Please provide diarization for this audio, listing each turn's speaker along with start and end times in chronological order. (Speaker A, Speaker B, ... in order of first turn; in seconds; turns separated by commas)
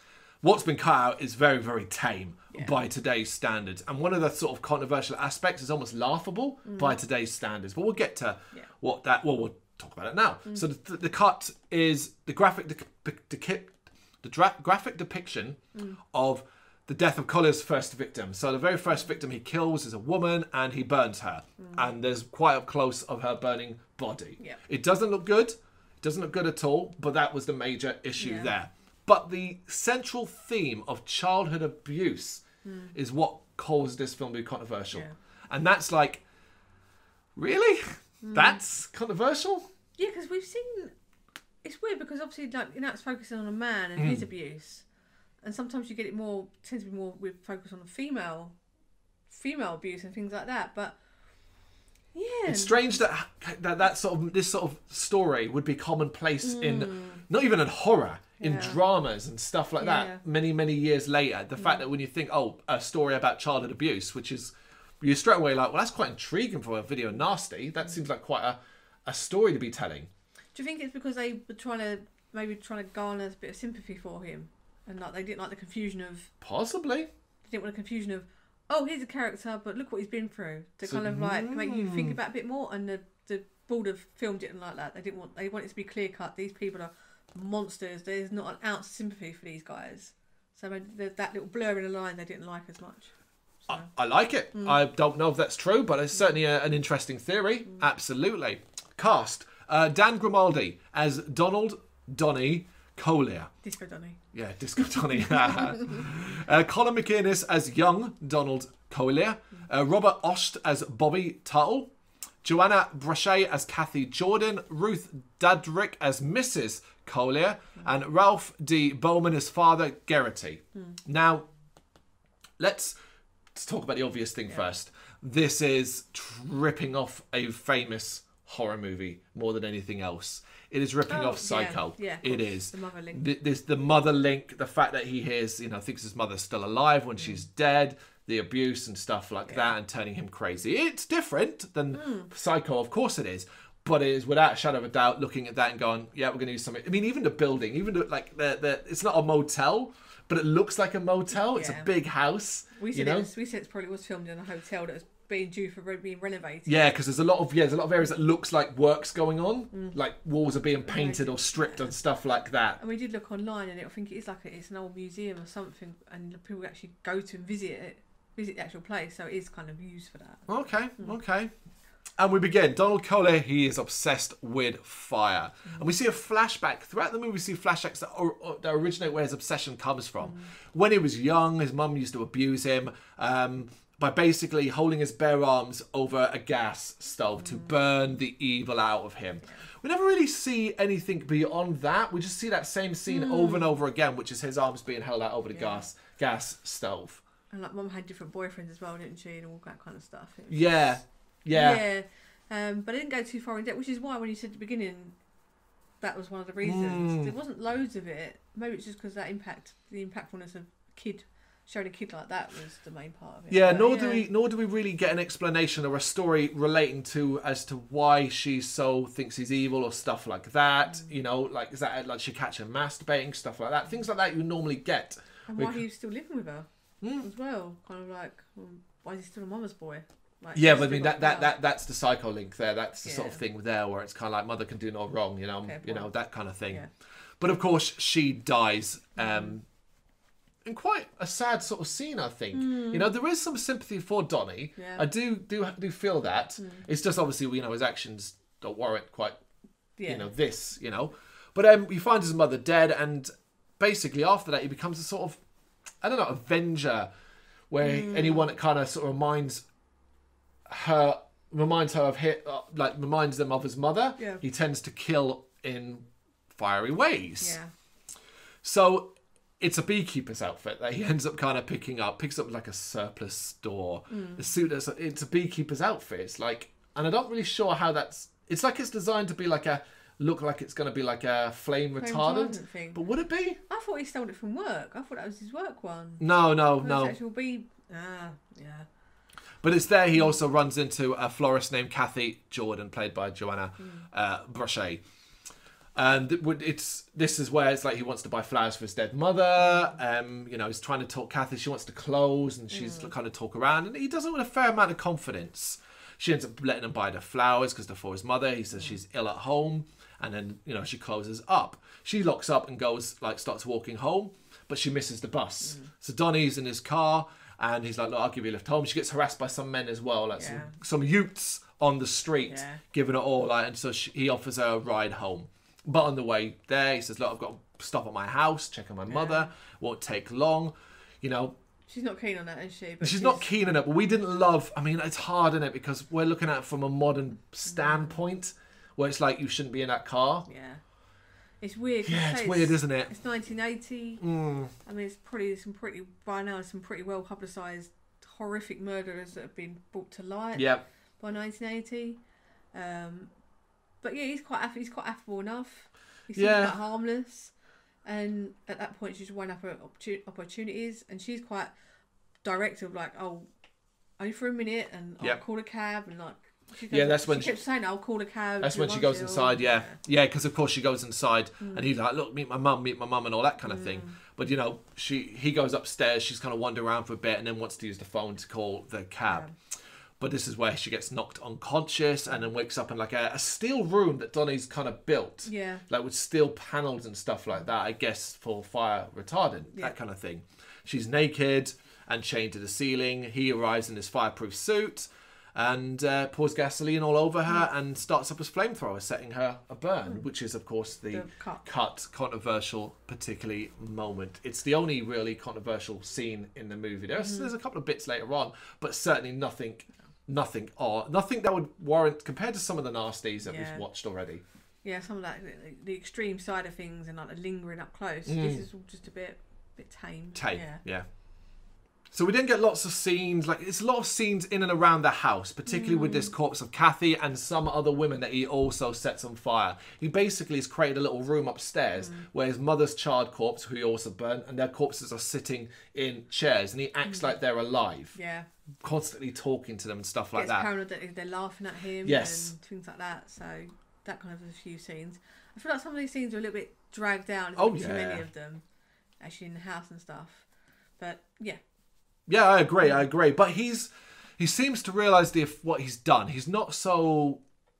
Speaker A: 0.4-15.6, Speaker B: 6.7-6.9, Speaker B: 15.7-16.0, Speaker A: 16.1-32.4, Speaker B: 21.6-21.9, Speaker B: 28.2-28.5, Speaker B: 32.6-32.9, Speaker A: 32.9-36.2, Speaker A: 37.4-39.7, Speaker B: 38.2-38.6, Speaker B: 40.0-40.9, Speaker B: 41.6-44.9, Speaker A: 44.0-44.2, Speaker B: 45.4-48.5, Speaker B: 49.3-51.0, Speaker B: 52.1-52.8, Speaker A: 52.5-70.1, Speaker B: 56.4-57.2, Speaker B: 58.4-58.8, Speaker B: 59.8-60.2, Speaker B: 61.6-61.8, Speaker B: 70.5-76.3, Speaker A: 76.4-77.1, Speaker B: 77.5-93.1, Speaker A: 80.8-82.2, Speaker B: 93.6-93.9, Speaker A: 93.7-103.5, Speaker B: 94.5-94.8, Speaker B: 103.6-104.2, Speaker A: 104.3-111.9, Speaker A: 112.4-121.4, Speaker A: 122.6-123.0, Speaker A: 123.5-153.3, Speaker B: 131.1-133.2, Speaker B: 139.5-139.7, Speaker B: 141.9-142.3, Speaker B: 151.4-151.9, Speaker B: 152.8-156.8, Speaker A: 156.7-162.8, Speaker B: 159.7-160.0, Speaker B: 160.8-161.9, Speaker B: 162.8-170.4, Speaker A: 170.5-171.5, Speaker A: 172.2-197.2, Speaker B: 180.2-180.5, Speaker B: 187.4-187.7, Speaker B: 193.1-193.7, Speaker B: 195.5-195.8, Speaker B: 197.5-201.0, Speaker A: 200.5-201.8, Speaker B: 201.5-205.1, Speaker B: 206.0-214.3, Speaker A: 206.6-207.3, Speaker A: 213.5-225.8, Speaker B: 225.5-231.6, Speaker A: 227.0-227.2, Speaker A: 230.5-236.8, Speaker B: 233.0-233.4, Speaker B: 235.6-236.1, Speaker A: 237.4-239.6, Speaker B: 239.2-239.5, Speaker A: 240.6-249.4, Speaker B: 242.5-243.1, Speaker B: 244.8-245.1, Speaker B: 246.6-246.8, Speaker B: 250.0-250.3, Speaker A: 250.1-255.4, Speaker A: 256.0-257.1, Speaker A: 257.7-259.6, Speaker B: 257.8-258.5, Speaker A: 260.7-267.6, Speaker B: 267.4-267.7, Speaker A: 268.6-283.6, Speaker B: 274.1-274.5, Speaker B: 282.0-283.0, Speaker B: 283.7-288.9, Speaker A: 286.2-287.2, Speaker A: 289.6-295.0, Speaker B: 290.1-290.4, Speaker B: 293.8-294.1, Speaker A: 295.9-331.5, Speaker B: 302.7-303.1, Speaker B: 315.6-315.9, Speaker B: 320.3-320.7, Speaker B: 322.5-322.8, Speaker B: 329.1-329.5, Speaker B: 331.9-333.5, Speaker A: 333.0-340.5, Speaker B: 337.7-338.2, Speaker B: 340.5-340.8, Speaker B: 341.6-344.2, Speaker A: 342.0-343.1, Speaker A: 344.2-344.7, Speaker B: 344.8-352.2, Speaker A: 350.5-350.8, Speaker B: 352.7-353.3, Speaker B: 354.0-357.5, Speaker A: 356.3-356.8, Speaker B: 358.0-361.7, Speaker B: 362.4-363.4, Speaker B: 364.2-370.0, Speaker A: 366.9-367.6, Speaker A: 368.6-379.5, Speaker B: 371.6-371.9, Speaker B: 373.6-374.1, Speaker B: 379.2-379.5, Speaker A: 380.2-414.4, Speaker B: 385.4-385.8, Speaker B: 401.1-401.6, Speaker B: 407.1-407.5, Speaker B: 413.4-413.9, Speaker B: 414.8-420.8, Speaker A: 418.2-418.6, Speaker A: 420.3-421.1, Speaker A: 422.1-438.1, Speaker B: 425.7-426.3, Speaker B: 432.0-432.2, Speaker B: 437.1-437.3, Speaker B: 438.1-438.5, Speaker A: 438.8-440.7, Speaker B: 440.3-448.6, Speaker A: 442.0-442.5, Speaker A: 447.6-448.2, Speaker B: 449.2-450.4, Speaker B: 451.0-451.6, Speaker A: 452.3-457.4